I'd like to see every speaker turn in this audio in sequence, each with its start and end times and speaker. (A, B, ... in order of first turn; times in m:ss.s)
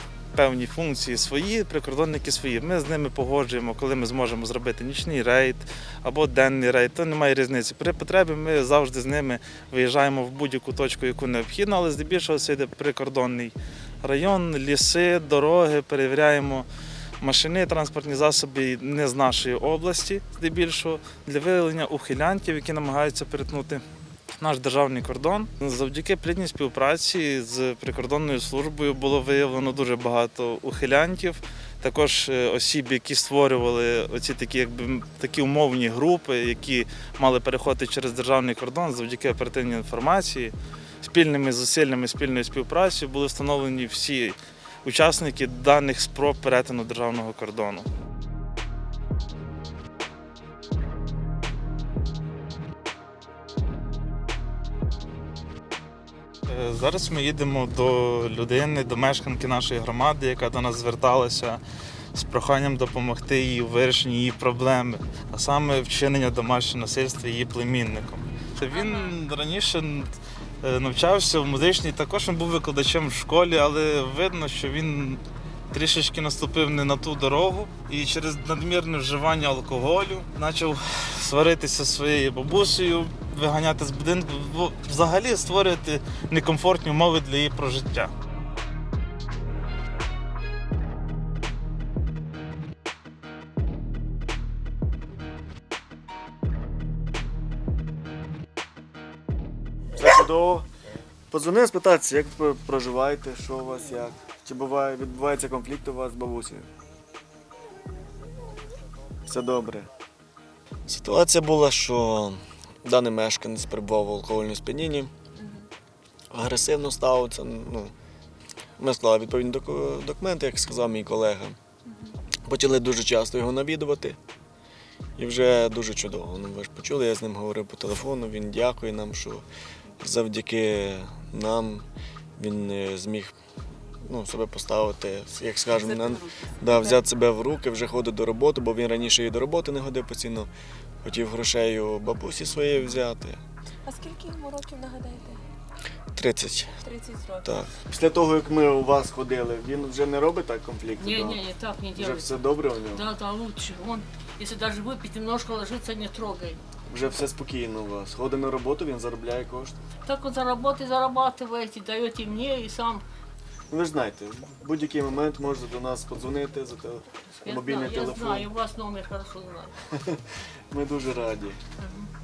0:00.3-0:16.7 A
0:17.2-0:23.8 A
0:24.3-0:47.9 A
0:56.5-1:01.6 A
1:02.1-1:28.1 A
1:08.7-1:09.1 B
1:40.0-1:40.7 C
1:41.3-1:46.7 C
1:49.2-1:49.9 C
1:50.9-1:55.1 C
1:56.3-1:57.9 C
1:58.8-2:01.6 C
2:02.4-2:04.2 C
2:05.2-2:09.4 C
2:10.0-2:11.8 C
2:12.4-2:13.3 C
2:14.0-2:20.5 C
2:21.0-2:23.4 C
2:23.9-2:25.3 B
2:26.1-2:26.7 C
2:26.9-2:27.4 B
2:27.4-2:31.4 C
2:31.0-2:32.3 D
2:31.9-2:33.0 C
2:32.9-2:36.6 D
2:36.9-2:39.8 C
2:40.0-2:43.0 D
2:43.7-2:48.5 C
2:47.3-2:49.9 D
2:49.9-2:51.6 C
2:51.8-2:52.1 D